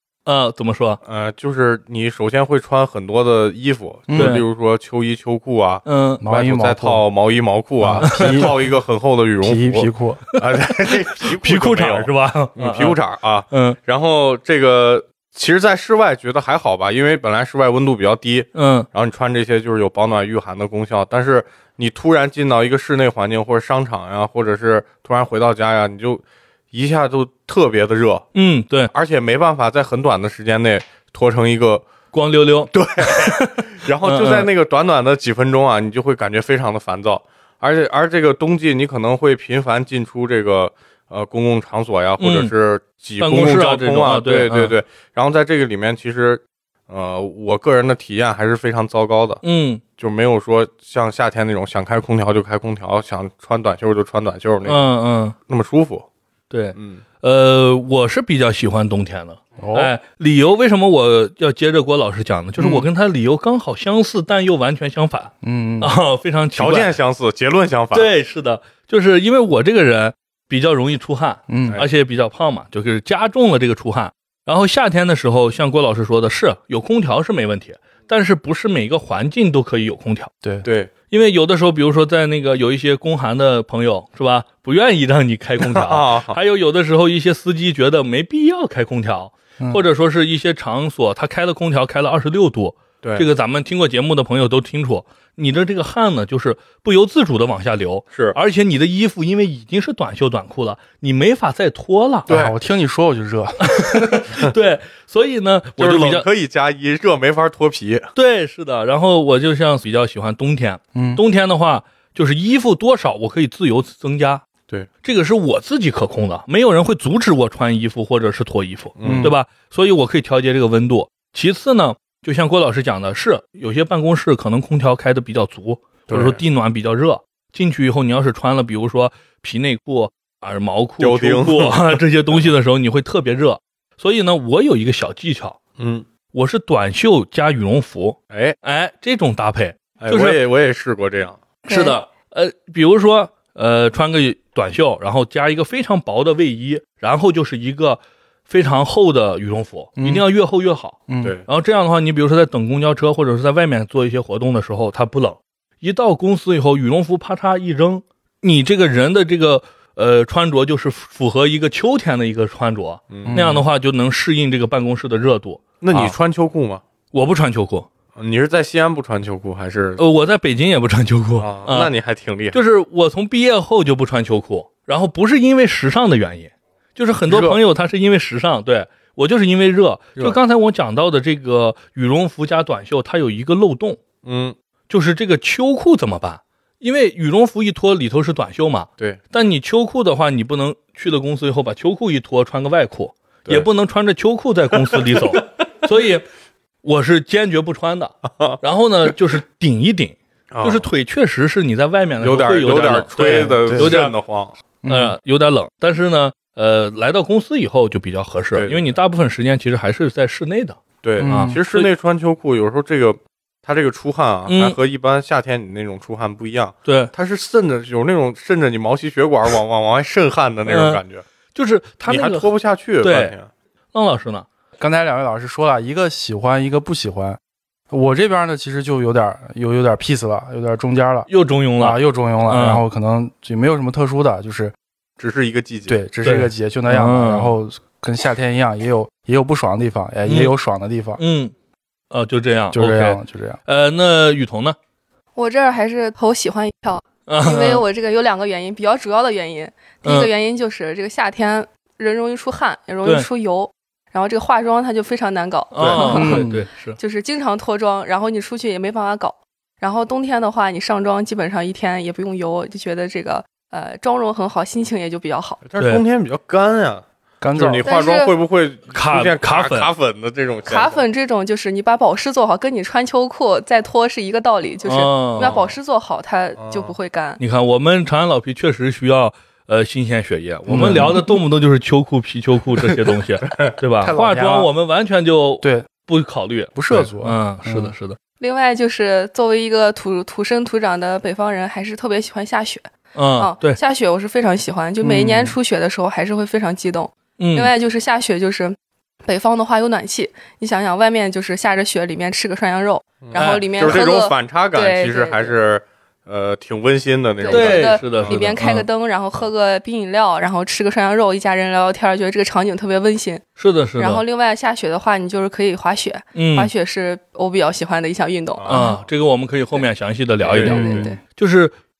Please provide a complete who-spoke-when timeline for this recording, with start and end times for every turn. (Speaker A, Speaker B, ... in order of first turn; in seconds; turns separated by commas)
Speaker A: 0.2-1.0, Speaker B: 1.0-28.3, Speaker C: 4.1-4.4, Speaker A: 4.2-4.4, Speaker A: 5.8-6.2, Speaker C: 6.2-7.0, Speaker C: 7.8-8.6, Speaker A: 8.0-8.5, Speaker C: 9.4-10.2, Speaker A: 10.6-13.0, Speaker A: 13.5-13.8, Speaker A: 18.5-18.9, Speaker A: 28.3-28.9, Speaker B: 28.9-31.9, Speaker A: 32.1-34.5, Speaker B: 32.7-49.4, Speaker A: 42.2-42.5, Speaker A: 43.2-44.7, Speaker A: 49.4-49.8, Speaker B: 50.0-54.8, Speaker A: 54.6-55.4, Speaker B: 55.5-56.1, Speaker A: 56.5-67.0, Speaker B: 56.8-57.0, Speaker C: 59.6-59.9, Speaker C: 62.6-62.9, Speaker C: 65.4-65.9, Speaker B: 66.5-68.1, Speaker A: 67.9-80.3, Speaker C: 71.5-71.8, Speaker C: 80.4-80.7, Speaker B: 80.6-80.9, Speaker A: 81.1-102.3, Speaker B: 85.6-86.4, Speaker B: 93.0-93.3, Speaker B: 102.3-102.5, Speaker C: 102.3-104.3, Speaker A: 103.6-106.3, Speaker B: 105.8-108.1, Speaker A: 108.1-114.4, Speaker C: 110.9-111.2, Speaker A: 115.0-135.6, Speaker B: 119.0-119.3, Speaker C: 119.0-119.3, Speaker B: 126.1-126.4, Speaker B: 131.0-132.5, Speaker B: 135.8-136.0, Speaker A: 136.3-140.4, Speaker B: 138.3-138.6, Speaker B: 140.0-141.4, Speaker A: 141.6-166.2, Speaker D: 141.7-142.0, Speaker C: 150.0-150.2, Speaker C: 151.1-151.3, Speaker B: 163.1-163.4, Speaker C: 163.2-163.6, Speaker B: 165.8-166.8, Speaker A: 167.1-167.9, Speaker B: 168.2-170.0, Speaker A: 170.0-171.9, Speaker B: 171.4-172.6, Speaker A: 172.5-184.0, Speaker B: 177.3-177.6, Speaker B: 184.2-184.5, Speaker A: 184.9-196.2, Speaker B: 194.7-195.4, Speaker A: 196.8-204.1, Speaker B: 200.5-200.9, Speaker B: 202.2-204.5, Speaker C: 203.2-204.0, Speaker C: 204.8-205.2, Speaker A: 204.9-211.9, Speaker B: 208.5-208.8, Speaker B: 211.0-221.2, Speaker C: 211.2-211.6, Speaker A: 214.5-214.8, Speaker A: 216.8-217.1, Speaker A: 220.7-221.0, Speaker A: 221.5-222.5, Speaker B: 222.1-223.5, Speaker A: 223.0-223.3, Speaker A: 223.9-224.4, Speaker C: 224.8-227.4, Speaker C: 227.9-234.7, Speaker A: 231.3-232.8, Speaker B: 235.2-236.0, Speaker C: 235.9-241.2, Speaker A: 236.2-237.5, Speaker A: 240.2-240.5, Speaker A: 241.2-241.5, Speaker A: 242.1-244.8, Speaker C: 242.7-243.6, Speaker D: 245.3-265.6, Speaker A: 247.3-247.8, Speaker A: 250.0-250.3, Speaker A: 255.7-257.0, Speaker C: 256.0-256.6, Speaker B: 265.6-271.0, Speaker A: 265.8-266.0, Speaker C: 267.4-267.9, Speaker D: 267.8-268.4, Speaker A: 268.9-269.9, Speaker D: 270.7-277.4, Speaker A: 274.8-275.6, Speaker B: 275.4-275.7, Speaker B: 276.6-276.9, Speaker A: 277.4-288.2, Speaker C: 280.7-281.4, Speaker B: 283.4-283.7, Speaker C: 284.0-284.7, Speaker C: 285.6-285.9, Speaker C: 286.7-287.9, Speaker D: 288.4-305.6, Speaker A: 293.1-293.8, Speaker C: 295.0-295.6, Speaker A: 297.4-297.7, Speaker B: 303.2-308.5, Speaker A: 303.3-304.0, Speaker D: 307.4-313.4, Speaker A: 307.5-308.8, Speaker C: 308.6-308.8, Speaker A: 313.6-314.2, Speaker D: 314.0-319.0, Speaker A: 316.3-316.7, Speaker A: 318.7-321.7, Speaker D: 320.5-321.2, Speaker B: 320.5-320.9, Speaker C: 320.6-321.1